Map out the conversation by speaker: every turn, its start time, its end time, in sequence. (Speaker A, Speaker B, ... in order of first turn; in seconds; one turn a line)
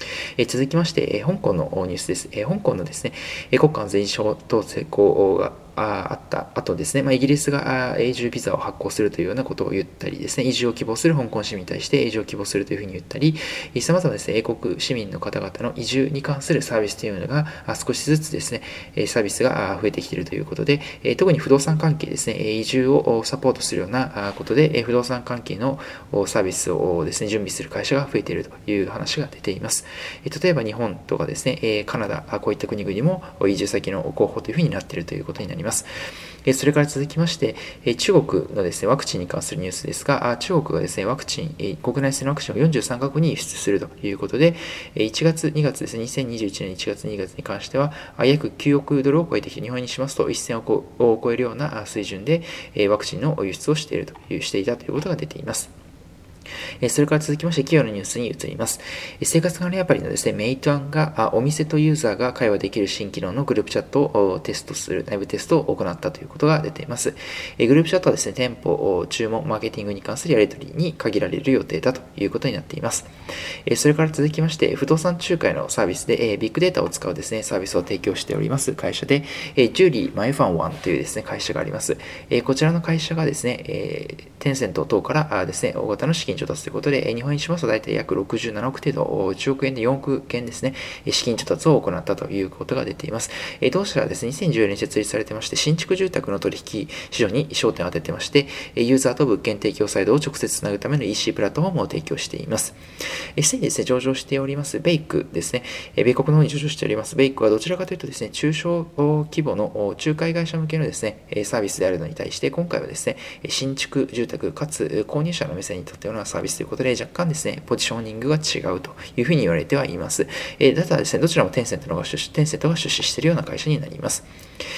Speaker A: 0.4-35.9
Speaker A: 36.5-55.7
Speaker A: 56.8-73.1
Speaker A: 73.7-102.8
Speaker A: 103.4-124.3